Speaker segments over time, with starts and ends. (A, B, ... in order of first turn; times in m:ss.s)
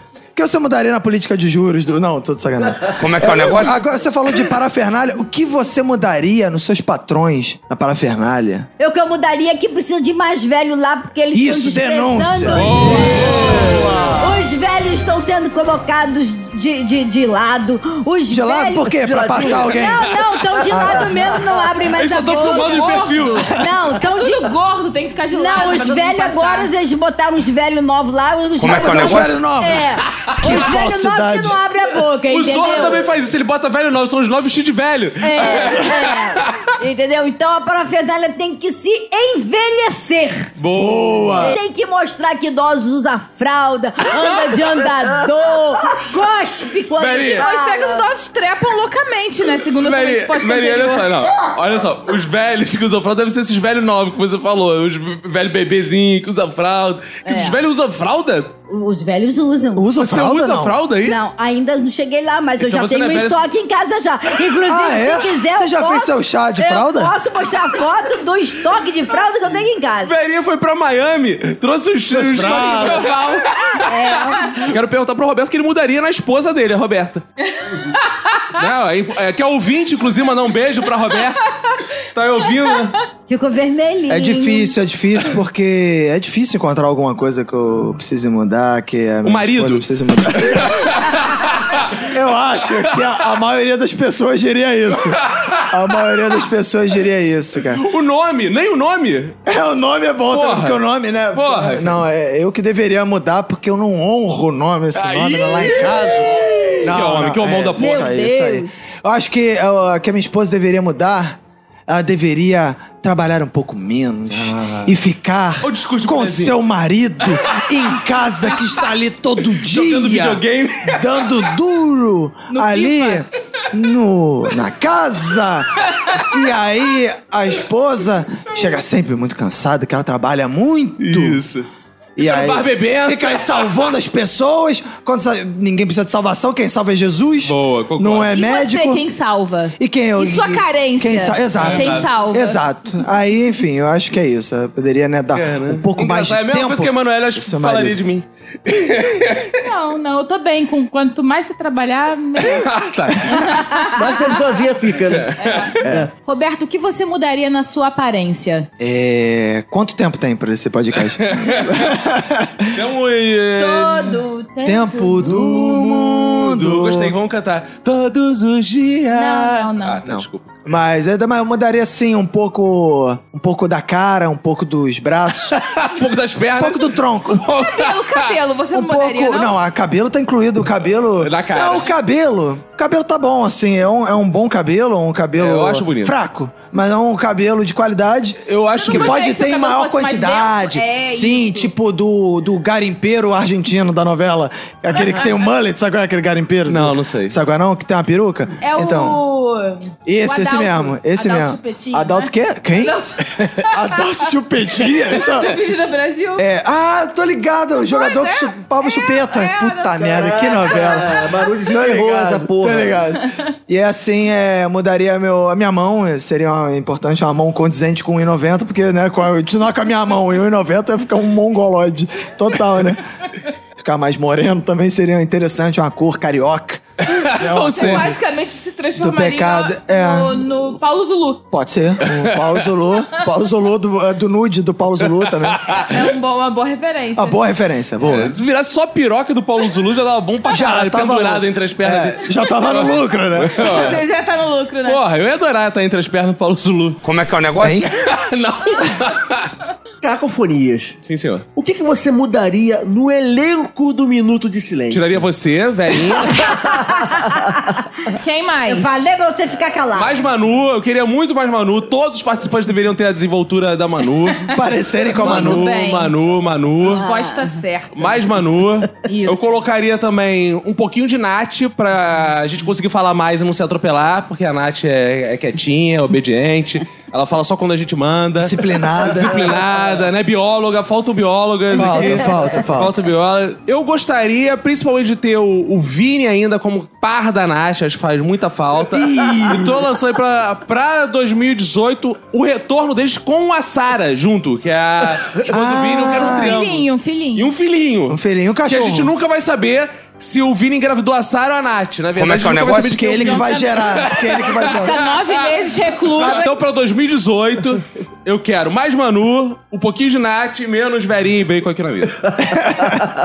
0:00.3-0:08.7 A
0:02.9-0:03.8 B
0:08.8-0:24.5 C
0:11.3-0:13.8 A
0:12.5-0:14.2 D
0:18.3-0:21.3 A
0:18.9-0:19.9 E
0:21.8-0:23.6 D
0:22.3-0:23.5 F
0:24.0-0:26.7 F
0:25.3-0:33.0 C
0:28.6-0:29.4 B
0:28.6-0:31.6 A
0:30.2-0:30.6 D
0:32.3-0:36.7 D
0:35.2-0:40.5 C
0:40.6-0:41.6 D
0:40.7-0:41.6 A
0:41.4-0:48.0 C
0:46.9-0:47.5 D
0:47.3-0:51.1 F
0:49.8-0:58.5 D
0:57.2-0:57.6 C
0:58.7-0:59.9 C
0:59.7-1:00.8 A
1:00.0-1:01.2 D
1:01.0-1:10.1 C
1:02.6-1:03.4 D
1:04.6-1:07.1 A
1:10.0-1:13.2 D
1:12.1-1:13.1 A
1:12.4-1:13.5 F
1:13.8-1:14.6 C
1:14.6-1:17.2 D
1:17.6-1:18.5 F
1:18.5-1:21.5 D
1:22.0-1:23.0 D
1:23.3-1:24.7 C
1:24.1-1:30.9 A
1:29.2-1:29.8 D
1:30.4-1:32.1 D
1:32.1-1:37.8 A
1:34.9-1:35.7 D
1:37.7-1:39.4 D
1:39.4-2:11.4 A
1:40.3-1:40.8 D
1:41.3-1:42.0 D
1:44.9-1:48.1 D
1:47.8-1:48.7 C
1:54.3-1:54.9 D
1:55.6-1:56.5 D
1:57.3-1:57.9 D
1:59.6-2:01.4 D
2:02.5-2:03.2 F
2:11.0-2:13.7 D
2:12.2-2:19.0 A
2:17.4-2:18.3 D
2:18.3-2:22.6 F
2:19.8-2:28.0 A
2:21.6-2:22.1 D
2:25.3-2:29.6 D
2:29.6-2:32.7 F
2:32.4-2:33.5 D
2:33.3-2:34.2 F
2:33.9-2:35.3 E
2:35.1-2:35.8 D
2:35.4-2:38.7 F
2:35.8-2:36.1 A
2:35.8-2:36.1 E
2:38.8-2:42.7 A
2:41.1-2:41.9 D
2:42.7-2:44.2 D
2:43.6-2:45.4 F
2:44.6-2:47.1 A
2:45.3-2:50.6 D
2:49.1-2:50.0 F
2:50.0-2:55.6 A
2:55.5-2:58.4 D
2:56.6-2:57.5 A
2:57.6-2:59.5 F
2:58.7-3:19.2 A
3:01.2-3:01.9 D
3:05.4-3:06.2 D
3:08.4-3:09.2 D
3:08.8-3:11.7 F
3:16.6-3:17.4 D
3:18.6-3:24.3 F
3:20.0-3:25.6 A
3:24.8-3:26.4 F
3:26.4-3:43.0 A
3:27.9-3:31.3 F
3:30.0-3:33.0 E
3:43.8-3:48.1 A
3:47.1-3:48.1 D
3:47.4-3:51.4 F
3:49.0-3:50.4 A
3:51.5-3:55.8 A
3:52.0-3:52.6 D
3:55.2-3:56.0 D
3:55.7-3:57.4 F
3:57.2-3:58.4 A
3:58.0-4:04.0 D
4:00.5-4:03.9 A
4:03.6-4:05.0 F
4:04.8-4:07.0 D
4:07.0-4:07.8 B
4:07.6-4:07.9 A
4:07.8-4:09.5 D
4:10.0-4:11.0 E
4:11.0-4:11.4 D
4:11.6-4:15.2 E
4:14.9-4:16.5 D
4:16.2-4:17.4 E
4:18.2-4:19.1 F
4:18.7-4:20.2 C
4:19.9-4:24.5 D
4:24.5-4:25.7 A
4:25.2-4:27.0 D
4:25.2-4:26.1 F
4:26.8-4:27.5 C
4:26.8-4:28.3 F
4:28.0-4:56.8 D
4:29.0-4:29.4 F
4:38.4-4:39.4 A
4:41.7-4:42.9 A
4:48.9-4:49.8 A
4:55.4-4:56.7 A
4:56.2-4:57.5 F
4:57.4-5:05.4 D
4:58.1-4:59.1 A
5:02.2-5:03.0 B
5:02.6-5:04.9 A
5:03.2-5:06.5 F
5:06.1-5:12.3 D
5:12.6-5:12.9 A